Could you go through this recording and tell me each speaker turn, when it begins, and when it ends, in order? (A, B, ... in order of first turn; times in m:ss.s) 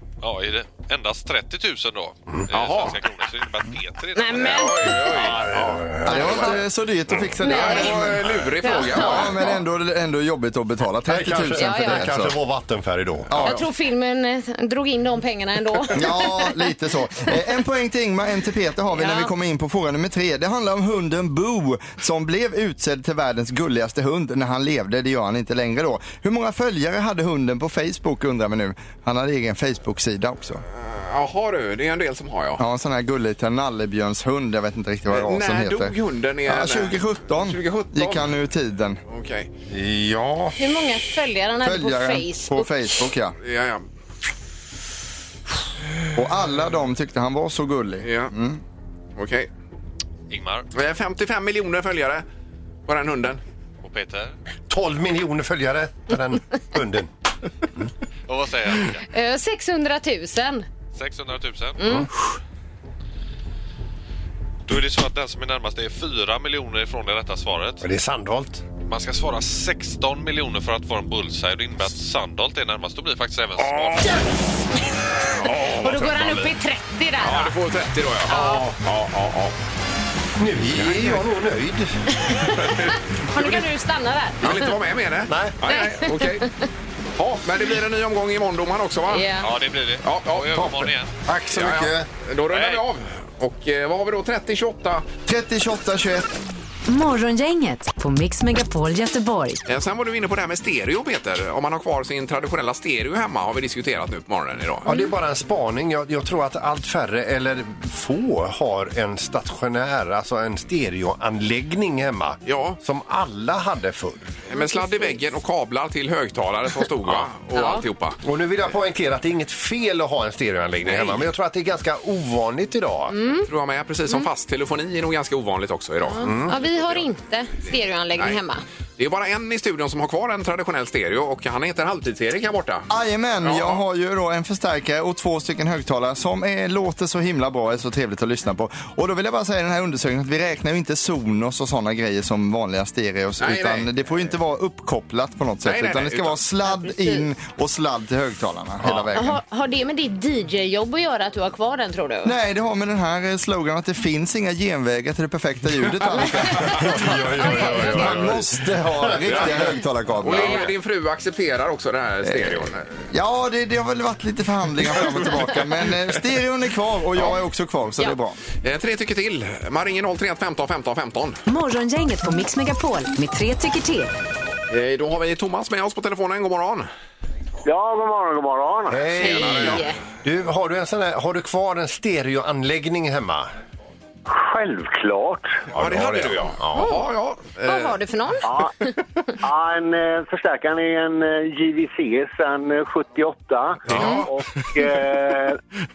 0:00.2-0:05.4 A
0:02.5-0:03.0 B
0:04.1-0:05.2 C
0:04.4-0:06.6 B
0:05.1-0:06.6 D
0:06.0-0:08.3 E
0:07.4-0:08.1 C
0:07.4-0:09.6 B
0:08.6-0:09.3 C
0:08.9-0:12.4 E
0:11.1-0:13.4 D
0:11.6-0:12.1 C
0:13.3-0:13.6 E
0:13.4-0:16.5 C
0:15.9-0:30.6 E
0:18.9-0:19.3 C
0:30.7-0:32.6 B
0:32.6-0:39.0 E
0:35.1-0:38.4 B
0:39.1-0:39.5 B
0:39.7-0:40.6 D
0:40.6-0:42.7 C
0:41.6-0:43.4 E
0:43.4-0:43.8 B
0:46.1-0:48.6 E
0:48.0-0:48.3 B
0:49.2-0:49.5 B
0:50.3-0:50.7 A
0:50.7-0:52.2 B
0:52.9-0:53.4 B
0:53.8-0:54.4 A
0:54.7-0:57.1 D
0:58.3-0:59.0 A
0:59.1-1:00.7 C
1:00.9-1:01.8 A
1:01.8-1:02.1 C
1:04.7-1:07.9 A
1:07.8-1:08.6 D
1:08.9-1:14.2 A
1:15.4-1:16.5 B
1:15.6-1:17.6 C
1:17.2-1:19.6 B
1:18.3-1:18.7 C
1:20.4-1:22.2 D
1:20.8-1:21.2 B
1:22.2-1:24.7 C
1:22.6-1:23.6 B
1:24.4-1:26.4 B
1:25.3-1:25.6 D
1:25.6-1:26.7 C
1:27.2-1:29.3 B
1:29.1-1:29.5 C
1:29.4-1:31.1 A
1:30.0-1:30.9 B
1:30.6-1:32.1 D
1:31.5-1:35.1 B
1:32.5-1:32.8 A
1:35.3-1:36.3 E
1:36.9-1:39.6 F
1:39.6-1:44.9 B
1:44.8-1:54.3 D
1:52.5-1:52.8 B
1:54.5-1:58.2 B
1:54.5-1:55.2 C
1:57.5-1:57.8 C
1:58.2-2:03.2 D
2:00.8-2:01.3 B
2:03.1-2:03.5 C
2:03.5-2:07.0 B
2:06.1-2:08.6 C
2:06.2-2:06.6 D
2:09.0-2:12.9 B
2:12.9-2:29.4 E
2:13.4-2:13.8 B
2:23.4-2:23.9 B
2:25.6-2:26.4 B
2:26.7-2:27.2 C
2:29.1-2:32.3 C
2:32.2-2:40.7 E
2:36.2-2:38.1 C
2:36.6-2:39.8 D
2:37.5-2:38.3 B
2:39.3-2:43.0 B
2:40.3-2:40.7 C
2:42.3-2:48.4 E
2:48.6-2:51.4 B
2:51.5-2:54.1 F
2:54.7-2:56.9 B
2:57.6-2:59.0 G
2:58.9-3:03.5 D
2:59.2-2:59.9 B
2:59.2-3:00.0 C
3:04.3-3:05.6 G
3:05.7-3:07.0 D
3:05.7-3:08.0 B
3:07.6-3:08.9 C
3:08.4-3:08.7 G
3:09.4-3:15.6 G
3:13.9-3:14.3 B